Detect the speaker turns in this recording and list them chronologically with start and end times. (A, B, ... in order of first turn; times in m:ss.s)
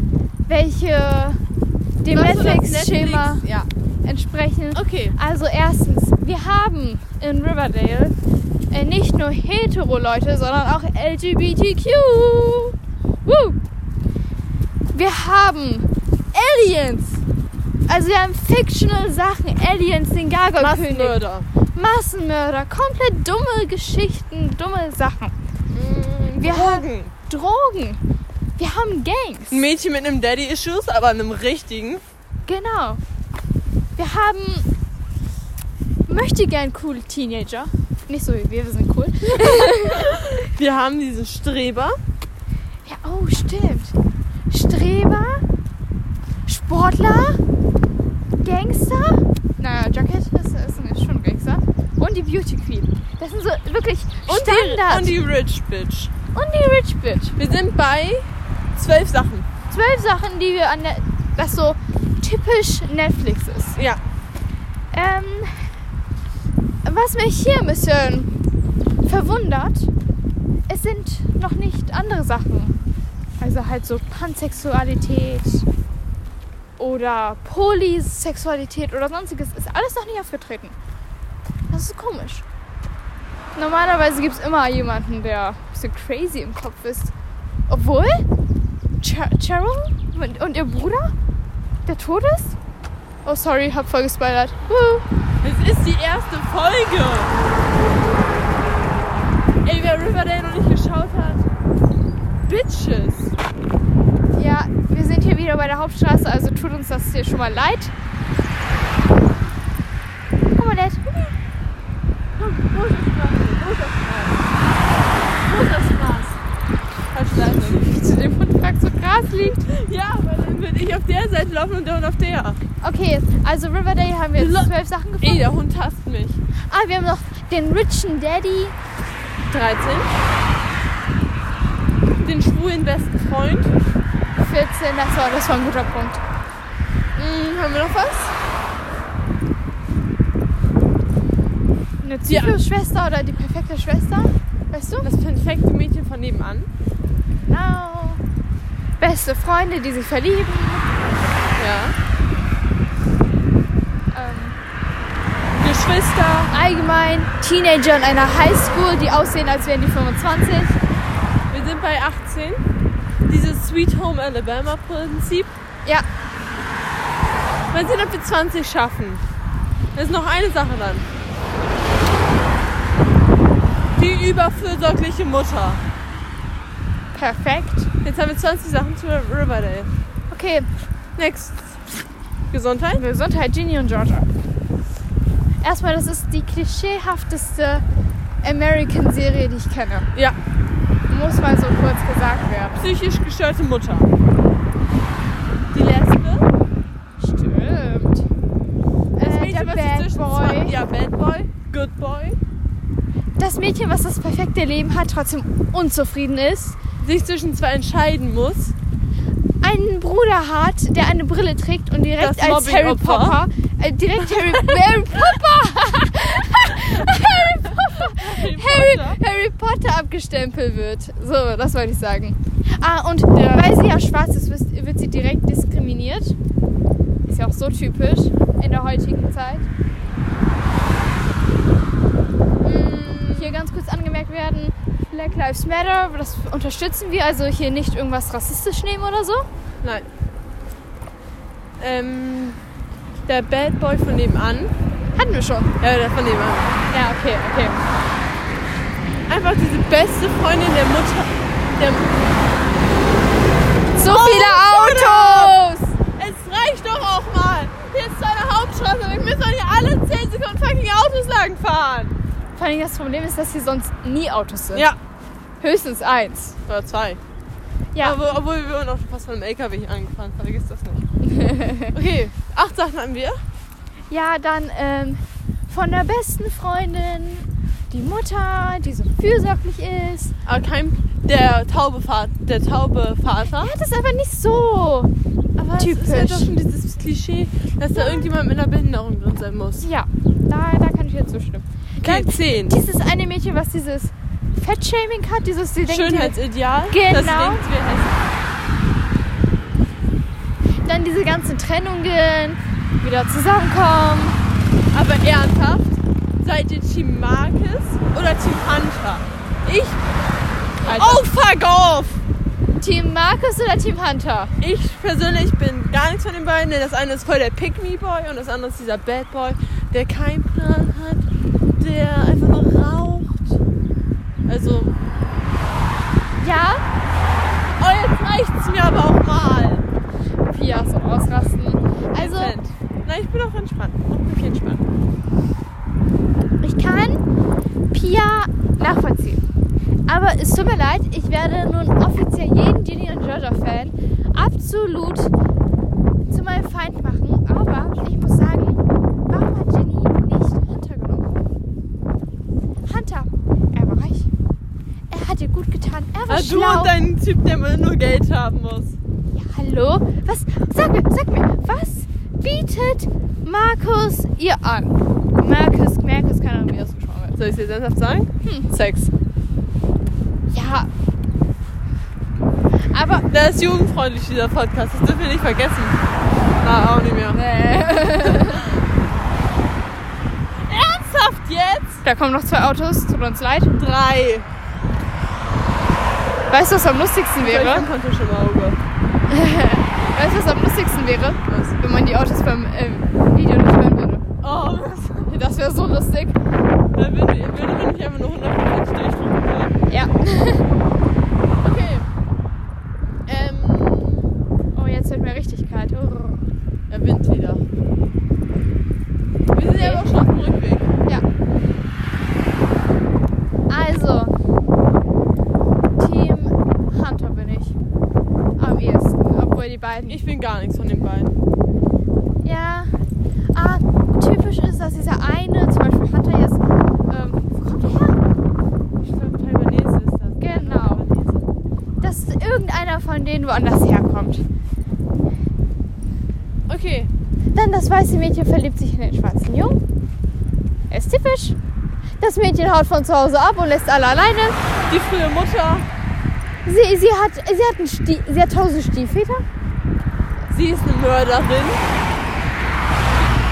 0:00.5-0:01.4 A
0:02.0-0:03.4 A
0:02.1-0:03.7 B
0:04.0-0:08.1 A
0:04.7-0:05.2 B
0:08.7-0:12.7 A
0:13.2-0:13.6 A
0:14.9-0:17.2 A
0:17.9-0:21.2 A
0:20.6-0:21.5 B
0:21.7-0:25.3 A
0:25.7-0:27.1 B
0:26.4-0:28.0 A
0:28.6-0:29.6 A
0:29.5-0:32.0 B
0:32.4-0:33.0 A
0:34.0-0:34.6 A
0:36.1-0:40.2 A
0:39.3-0:42.0 B
0:42.8-0:43.9 A
0:44.5-0:45.4 A
0:46.4-0:47.4 A
0:48.4-0:55.2 A
0:54.3-0:56.1 B
0:56.3-0:57.4 A
0:57.4-0:59.5 B
0:59.7-1:03.8 A
1:03.7-1:04.0 B
1:04.9-1:05.7 A
1:06.8-1:08.3 A
1:09.0-1:09.9 A
1:10.7-1:12.7 A
1:13.4-1:15.6 A
1:16.8-1:20.7 A
1:21.7-1:22.4 A
1:23.6-1:27.1 A
1:27.7-1:28.2 A
1:29.0-1:31.1 A
1:31.9-1:32.6 A
1:33.2-1:35.0 A
1:35.4-1:37.3 B
1:39.6-1:41.5 B
1:42.4-1:43.3 B
1:44.3-1:47.9 A
1:50.6-1:51.3 A
1:52.4-1:54.6 B
1:55.2-1:56.4 B
1:57.1-1:57.8 B
1:57.4-1:59.6 A
1:59.5-2:02.6 B
2:02.8-2:05.5 A
2:04.4-2:04.7 B
2:05.2-2:06.4 B
2:06.7-2:08.8 A
2:09.5-2:10.1 B
2:12.2-2:13.7 B
2:14.4-2:16.2 A
2:17.2-2:18.3 B
2:22.0-2:25.1 A
2:22.3-2:22.6 B
2:25.0-2:26.7 B
2:27.5-2:28.2 A
2:29.0-2:30.9 A
2:31.6-2:32.0 B
2:34.1-2:34.6 A
2:35.6-2:36.5 B
2:36.5-2:40.8 A
2:41.5-2:42.6 B
2:43.3-2:45.6 B
2:47.7-2:49.2 B
2:49.9-2:51.0 B
2:54.0-2:55.8 B
2:57.1-2:57.9 A
2:58.0-2:59.9 B
3:00.3-3:00.7 A
3:01.2-3:01.8 B
3:02.5-3:03.0 B
3:02.9-3:04.3 A
3:05.6-3:07.8 A
3:08.4-3:10.1 A
3:11.1-3:12.8 A
3:12.8-3:14.1 B
3:15.7-3:16.5 B
3:17.2-3:18.3 A
3:19.2-3:20.8 A
3:19.2-3:22.4 B
3:23.4-3:26.8 A
3:27.0-3:28.7 B
3:29.6-3:46.4 A
3:32.2-3:33.4 B
3:34.2-3:34.8 B
3:37.9-3:39.2 B
3:43.4-3:43.7 B
3:47.3-3:49.7 A
3:52.6-3:53.6 B
3:53.3-3:59.5 A
4:01.8-4:02.6 B
4:03.3-4:04.7 B
4:05.2-4:05.7 A
4:05.8-4:06.8 B
4:06.9-4:07.8 A
4:09.3-4:12.3 B
4:14.0-4:15.6 B
4:14.0-4:15.9 A
4:16.2-4:22.2 B
4:22.6-4:24.9 A
4:25.6-4:26.6 A
4:26.7-4:27.2 B
4:28.0-4:31.1 B
4:31.2-4:31.9 A
4:31.9-4:33.4 B
4:34.1-4:40.3 A
4:40.4-4:43.7 B
4:43.6-4:45.1 A
4:45.6-4:49.8 B
4:45.8-4:46.6 A
4:47.9-4:48.3 A
4:49.8-4:56.4 A
4:52.0-4:52.8 B
4:55.9-4:58.2 B
4:56.9-4:57.6 A
5:00.8-5:04.4 A
5:04.9-5:10.0 B
5:10.8-5:11.2 A
5:10.8-5:12.2 B
5:12.8-5:14.5 A
5:14.6-5:23.6 B
5:24.4-5:24.9 B
5:26.4-5:26.8 A
5:27.8-5:29.8 B
5:30.5-5:32.6 A
5:32.2-5:34.9 B
5:36.6-5:37.2 A
5:37.9-5:39.4 A
5:40.1-5:45.3 A
5:46.3-5:51.3 A
5:52.9-5:54.3 A
5:55.1-5:56.9 A
5:56.3-5:59.0 B
5:59.3-6:07.4 A
6:07.4-6:09.1 B
6:08.4-6:08.7 A
6:10.5-6:10.9 A
6:12.9-6:13.3 A
6:13.3-6:16.1 B
6:16.6-6:17.4 B
6:17.3-6:18.6 A
6:18.0-6:18.7 B
6:20.6-6:22.0 B
6:22.0-6:23.7 A
6:23.7-6:24.5 B
6:26.5-6:27.9 A
6:27.4-6:28.8 B
6:29.3-6:34.3 A
6:31.5-6:31.8 B
6:34.4-6:35.4 B
6:35.3-6:36.4 A
6:36.9-6:39.8 B
6:39.9-6:40.7 A
6:41.6-6:42.1 B
6:43.3-6:44.4 B
6:44.7-6:46.5 A
6:46.9-6:47.7 B
6:49.5-6:50.9 B
6:49.8-6:50.1 A
6:53.7-6:54.3 A
6:56.0-6:57.8 A
6:58.6-7:00.2 A
7:00.1-7:01.4 B
7:02.4-7:02.9 A
7:03.5-7:08.2 A
7:09.0-7:11.5 B
7:10.4-7:11.1 A
7:12.0-7:14.4 A
7:16.7-7:17.1 B
7:17.6-7:19.8 A
7:20.9-7:21.6 A
7:22.2-7:24.6 A
7:24.9-7:25.9 B
7:26.6-7:29.4 A
7:30.5-7:31.8 B